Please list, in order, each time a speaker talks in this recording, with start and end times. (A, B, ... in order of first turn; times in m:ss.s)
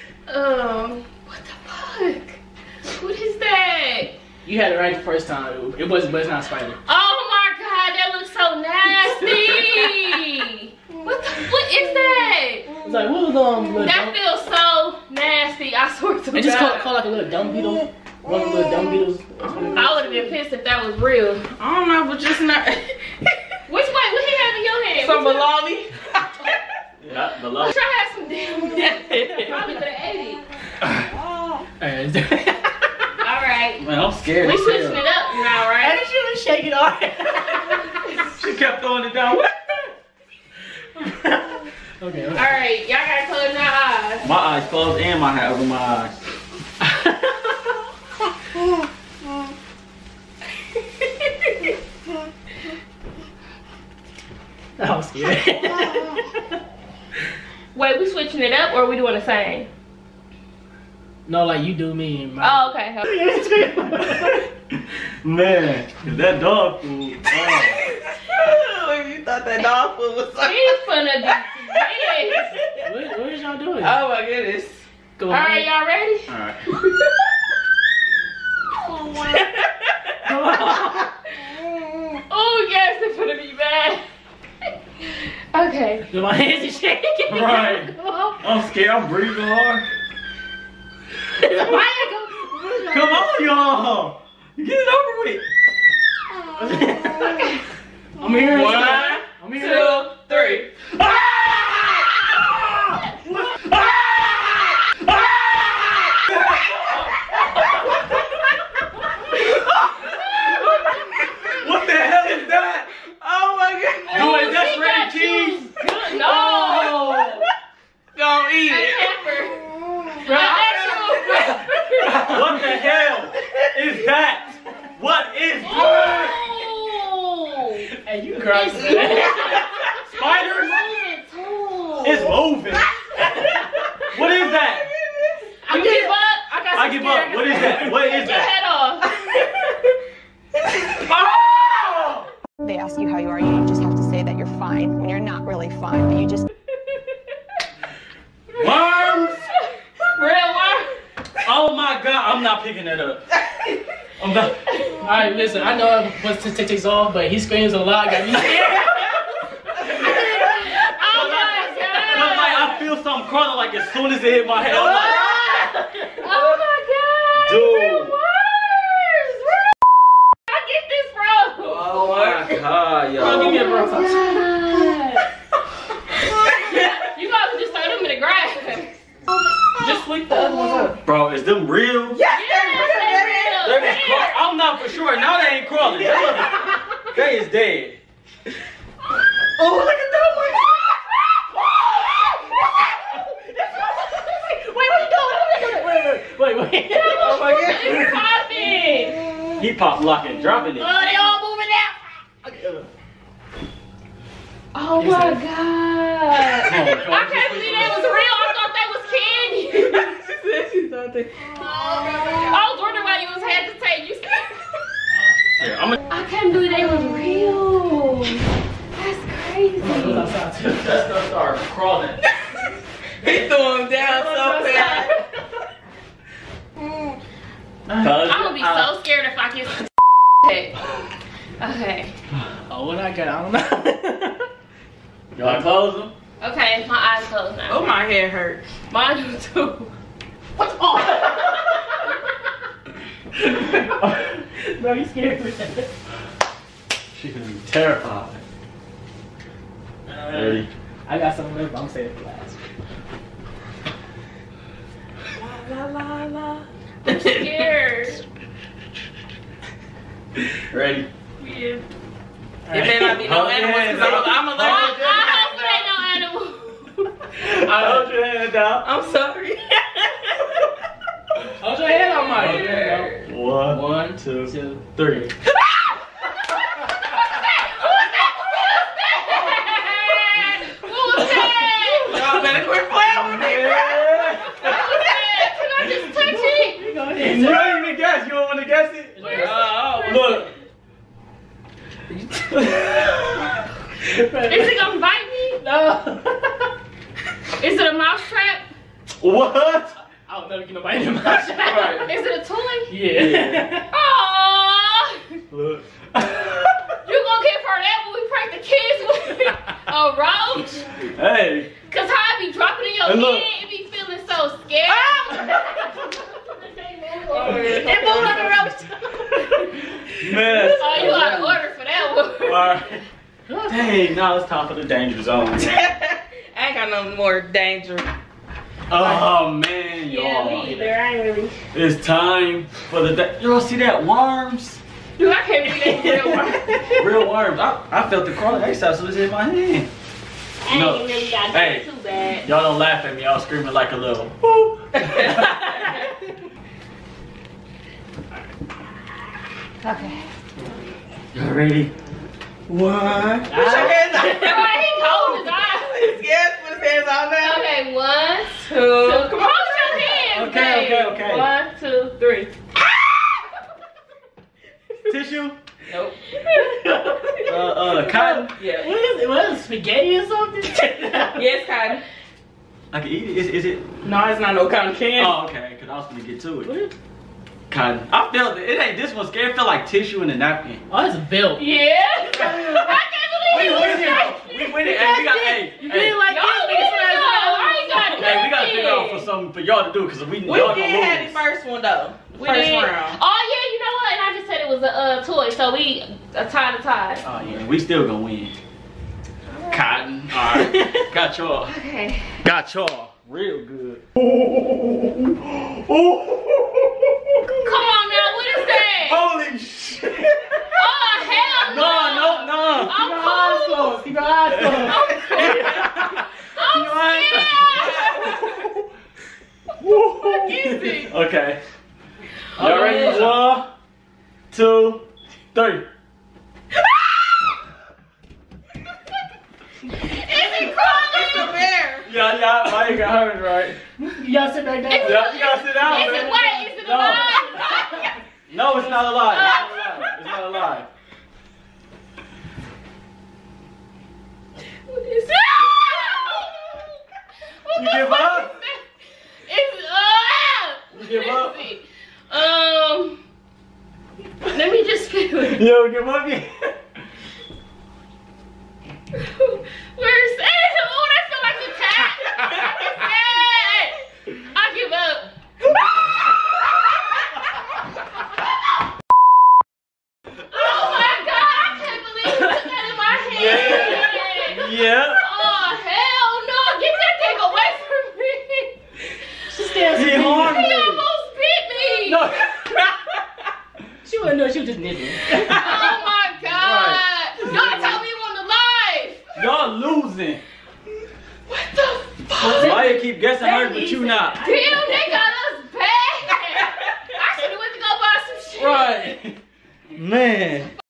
0:00.3-0:04.2 A
0:04.4-0:06.8 B
0:06.8-0:12.7 A
0:12.8-0:14.1 B
0:13.8-0:16.9 A
0:16.3-0:20.0 B
0:16.4-0:16.7 C
0:19.5-0:19.8 C
0:19.7-0:21.5 A
0:21.6-0:23.3 C
0:23.7-0:25.5 A
0:25.0-0:26.6 C
0:27.0-0:27.8 D
0:27.6-0:30.4 A
0:28.8-0:29.5 C
0:31.8-0:32.8 B
0:33.2-0:33.8 A
0:33.8-0:35.0 D
0:34.4-0:36.0 A
0:35.8-0:38.0 B
0:38.3-0:39.5 D
0:41.0-0:42.5 B
0:42.3-0:44.3 A
0:44.2-0:46.1 D
0:46.8-0:47.5 B
0:54.8-0:56.2 B
0:57.7-0:59.7 A
1:01.2-1:04.5 B
1:02.4-1:03.0 A
1:04.0-1:04.4 D
1:05.2-1:07.8 D
1:07.4-1:10.8 C
1:10.4-1:12.5 A
1:11.3-1:11.8 C
1:12.8-1:14.0 B
1:13.8-1:14.8 C
1:15.2-1:15.7 B
1:15.3-1:16.3 A
1:16.3-1:16.6 D
1:19.0-1:19.4 C
1:20.2-1:21.1 B
1:22.3-1:24.0 A
1:25.5-1:26.1 A
1:26.1-1:28.4 B
1:27.3-1:29.9 D
1:27.3-1:27.6 A
1:31.3-1:33.4 B
1:32.9-1:35.4 D
1:36.6-1:37.6 B
1:38.2-1:40.2 B
1:38.4-1:40.7 C
1:41.0-1:47.1 D
1:51.5-1:52.9 D
1:53.2-1:54.7 C
1:54.1-1:57.4 A
1:54.1-1:55.6 D
1:56.7-1:57.4 D
1:58.1-1:59.2 C
1:58.6-1:59.6 A
2:00.2-2:02.6 A
2:00.2-2:02.2 C
2:00.3-2:00.6 B
2:02.1-2:06.4 D
2:05.6-2:07.9 A
2:07.9-2:09.6 B
2:08.4-2:12.4 A
2:10.0-2:10.8 D
2:12.0-2:12.9 D
2:14.1-2:14.9 D
2:15.6-2:18.1 B
2:15.7-2:16.5 A
2:16.7-2:18.5 D
2:17.5-2:19.1 A
2:21.9-2:22.2 D
2:22.6-2:26.5 E
2:28.6-2:29.5 D
2:30.0-2:31.0 A
2:31.4-2:33.3 D
2:34.2-2:34.6 D
2:35.0-2:39.1 B
2:39.8-2:40.9 B
2:40.1-2:42.8 A
2:41.0-2:45.2 D
2:41.8-2:42.5 B
2:44.6-2:45.6 C
2:45.2-2:46.2 B
2:46.2-2:49.4 A
2:47.4-2:48.2 D
2:50.5-2:51.8 A
2:51.6-2:52.6 C
2:51.9-2:53.8 D
2:53.1-2:54.5 C
2:53.2-2:55.2 A
2:57.1-2:59.0 A
2:59.8-3:01.0 C
3:01.0-3:02.2 D
3:02.1-3:03.8 C
3:02.3-3:04.4 A
3:03.6-3:08.0 D
3:13.5-3:17.4 B
3:15.5-3:15.8 A
3:17.0-3:19.2 A
3:17.2-3:18.1 C
3:17.2-3:18.2 D
3:19.6-3:20.9 D
3:20.8-3:22.8 B
3:24.7-3:30.0 A
3:25.0-3:25.4 D
3:26.6-3:28.2 D
3:29.7-3:32.5 C
3:32.4-3:34.6 A
3:35.6-3:36.0 D
3:36.1-3:40.2 A
3:39.8-3:41.0 B
3:40.0-3:42.2 D
3:43.2-3:45.2 C
3:44.0-3:45.2 B
3:47.9-3:48.2 B
3:47.9-3:48.9 D
3:48.2-3:50.8 A
3:51.6-3:52.1 A
3:52.7-3:54.5 B
3:55.3-3:56.1 D
3:56.4-3:57.9 A
3:57.7-3:58.6 C
3:58.9-3:59.9 A
4:00.6-4:01.7 B
4:03.4-4:05.9 B
4:07.1-4:08.4 D
4:10.1-4:12.6 B
4:10.3-4:10.7 D
4:15.4-4:17.7 C
4:17.2-4:18.2 A
4:20.7-4:21.1 D
4:21.4-4:21.8 A
4:22.6-4:23.2 B
4:22.7-4:25.3 C
4:22.8-4:25.7 D
4:24.5-4:27.1 A
4:27.4-4:28.9 D
4:27.6-4:28.1 B
4:28.8-4:30.4 C
4:31.6-4:34.8 B
4:32.4-4:35.3 D
4:37.1-4:42.5 A
4:42.0-4:45.1 C
4:43.0-4:44.9 D
4:44.5-4:46.8 A
4:45.8-4:46.4 D
4:46.6-4:47.7 B
4:47.2-4:50.5 D
4:49.1-4:50.5 B
4:49.2-4:50.4 C
4:52.1-4:53.2 B
4:52.5-4:53.4 D
4:54.0-4:54.9 B
4:54.5-4:55.6 A
4:55.6-4:56.7 B
4:57.6-4:58.6 A
4:59.2-5:00.0 D
5:00.3-5:02.1 B
5:01.6-5:02.0 D
5:01.7-5:02.9 A
5:02.9-5:03.9 B
5:03.1-5:03.8 D
5:03.9-5:05.4 A
5:05.5-5:06.9 D
5:07.0-5:10.9 A
5:11.0-5:11.7 D
5:11.9-5:15.5 A
5:13.0-5:13.4 D
5:14.9-5:15.5 C
5:15.3-5:19.7 B
5:17.3-5:18.6 A
5:17.4-5:18.6 C
5:20.1-5:21.5 D
5:20.5-5:22.8 A
5:22.4-5:23.0 D
5:23.5-5:23.9 B
5:23.7-5:25.8 D
5:25.6-5:28.1 C
5:28.9-5:30.9 D
5:29.0-5:29.2 C
5:30.0-5:31.6 A
5:31.7-5:34.8 D
5:35.2-5:36.9 A
5:35.8-5:37.0 B
5:36.9-5:39.9 D
5:40.6-5:42.5 A
5:40.7-5:41.9 D
5:42.4-5:45.5 D
5:45.0-5:45.9 C
5:51.3-5:51.9 D
5:52.7-5:57.7 C
5:53.5-5:54.5 B
5:54.2-5:56.1 A
5:57.4-6:02.5 A
5:58.6-6:00.2 C
6:00.2-6:01.5 D
6:05.1-6:05.6 D
6:05.9-6:06.2 C
6:06.3-6:07.5 A
6:06.8-6:07.4 B
6:07.4-6:08.6 D
6:07.9-6:08.9 C
6:08.8-6:11.4 B
6:11.3-6:12.0 C
6:12.9-6:13.8 D
6:14.0-6:15.3 C
6:15.2-6:16.7 D
6:16.6-6:16.9 B
6:17.7-6:20.8 D
6:20.9-6:21.6 B
6:21.6-6:24.7 A
6:22.2-6:28.5 B
6:23.5-6:26.2 D
6:26.3-6:29.3 A
6:28.2-6:31.4 D
6:30.4-6:33.2 C
6:32.4-6:37.2 A
6:37.2-6:37.6 B
6:37.4-6:38.5 D
6:39.7-6:41.7 D
6:40.5-6:41.0 B
6:41.7-6:42.4 A
6:42.4-6:50.6 D
6:47.6-6:49.2 A
6:50.7-6:54.0 A
6:51.6-6:52.9 D
6:52.9-6:56.2 B
6:54.4-6:58.3 D
6:54.8-6:55.8 A
6:56.5-6:58.4 A
6:57.7-6:58.4 C
6:59.8-7:01.6 D
7:00.6-7:01.1 A
7:02.6-7:03.5 B
7:02.6-7:03.7 D
7:02.8-7:03.2 A
7:04.5-7:05.9 D
7:10.0-7:11.6 A
7:10.9-7:12.1 C
7:12.0-7:13.8 D
7:14.0-7:18.1 B
7:14.9-7:18.1 A
7:15.0-7:17.5 D
7:18.5-7:20.9 D
7:18.8-7:19.5 B
7:19.2-7:20.3 A
7:24.9-7:26.9 A
7:27.6-7:28.8 A
7:27.7-7:28.7 D
7:29.5-7:33.2 A
7:30.9-7:31.6 D
7:34.4-7:35.6 A
7:35.4-7:36.7 D
7:39.1-7:45.3 A
7:50.5-7:58.8 A
7:53.3-7:55.2 D
7:59.5-8:00.6 B
7:59.9-8:01.0 D
8:00.0-8:02.3 A
8:02.0-8:02.9 D
8:04.0-8:05.7 B
8:05.4-8:09.3 A
8:06.6-8:08.0 D
8:09.4-8:10.4 D
8:11.5-8:12.9 A
8:12.4-8:15.2 B
8:12.4-8:14.4 D
8:13.6-8:18.9 A
8:18.6-8:19.2 C
8:19.9-8:20.7 D